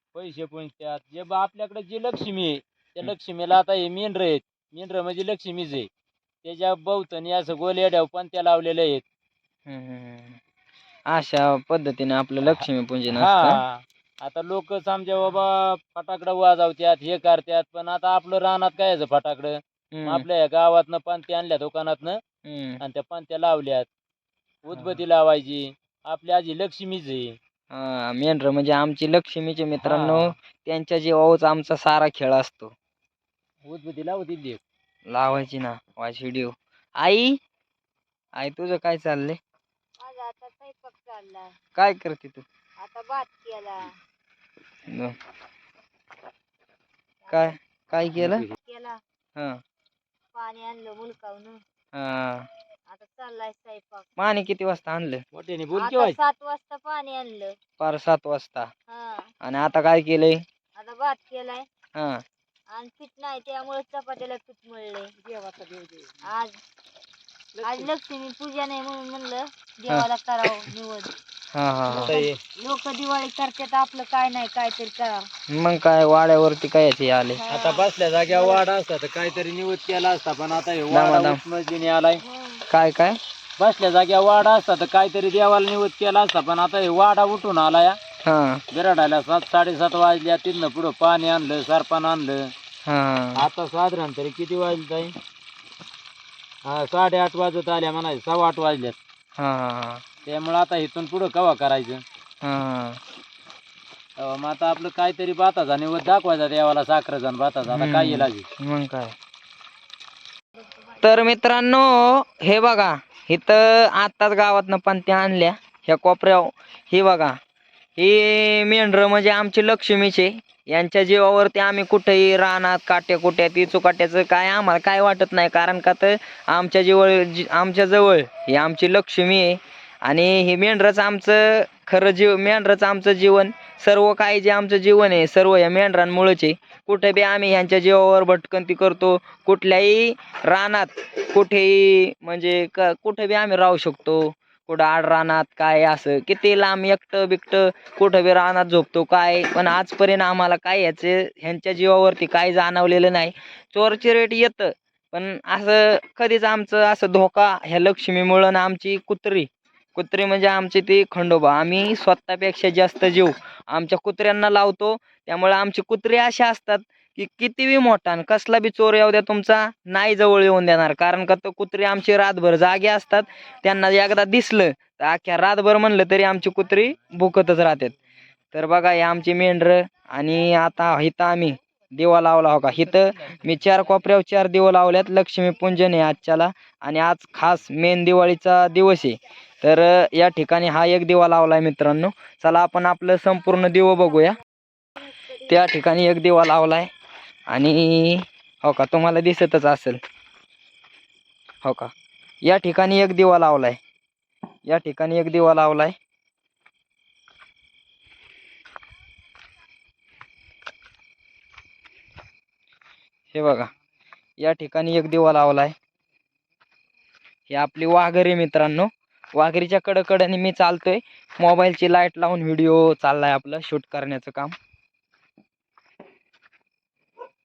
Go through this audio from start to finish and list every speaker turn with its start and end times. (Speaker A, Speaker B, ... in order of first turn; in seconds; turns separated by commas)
Speaker A: 0.1-5.9, Speaker A: 6.4-9.0, Speaker B: 9.7-10.4, Speaker B: 11.1-13.6, Speaker A: 13.1-22.2, Speaker B: 19.9-20.2, Speaker B: 22.4-22.8, Speaker A: 22.8-23.9, Speaker A: 24.6-27.4, Speaker B: 24.7-25.0, Speaker B: 27.7-32.7, Speaker A: 29.8-30.4, Speaker A: 33.6-34.6, Speaker B: 35.1-37.4, Speaker B: 38.4-39.4, Speaker C: 40.0-41.5, Speaker B: 41.8-42.4, Speaker C: 42.8-43.9, Speaker B: 44.9-45.1, Speaker C: 47.2-47.5, Speaker B: 47.3-48.4, Speaker A: 48.2-48.5, Speaker C: 48.6-49.0, Speaker B: 49.4-49.6, Speaker C: 50.3-51.6, Speaker B: 51.9-52.5, Speaker C: 52.9-54.0, Speaker B: 54.2-55.2, Speaker A: 55.3-56.2, Speaker C: 55.7-57.5, Speaker B: 57.8-58.7, Speaker C: 58.9-59.3, Speaker B: 59.4-60.4, Speaker C: 60.8-61.6, Speaker B: 61.9-62.2, Speaker C: 62.7-65.1, Speaker A: 65.2-66.2, Speaker C: 66.2-66.6, Speaker A: 67.5-67.9, Speaker C: 67.6-71.1, Speaker B: 71.5-72.1, Speaker A: 71.9-72.4, Speaker C: 72.1-75.3, Speaker B: 75.5-77.4, Speaker C: 77.4-78.6, Speaker A: 77.5-82.2, Speaker B: 80.9-81.4, Speaker C: 82.2-82.6, Speaker B: 82.7-83.2, Speaker A: 83.6-88.0, Speaker B: 88.2-88.6, Speaker A: 88.7-92.5, Speaker B: 92.8-93.4, Speaker A: 93.4-95.2, Speaker A: 96.6-99.0, Speaker B: 99.4-100.0, Speaker A: 100.2-102.0, Speaker B: 102.4-103.0, Speaker A: 104.2-108.5, Speaker B: 107.7-109.1, Speaker B: 111.0-117.4, Speaker B: 118.0-177.9, Speaker B: 178.5-194.4, Speaker B: 195.4-196.9, Speaker B: 197.5-200.0, Speaker B: 201.6-201.9, Speaker B: 202.4-203.8, Speaker B: 204.7-205.9, Speaker B: 213.3-213.7, Speaker B: 214.4-215.7, Speaker B: 217.5-224.5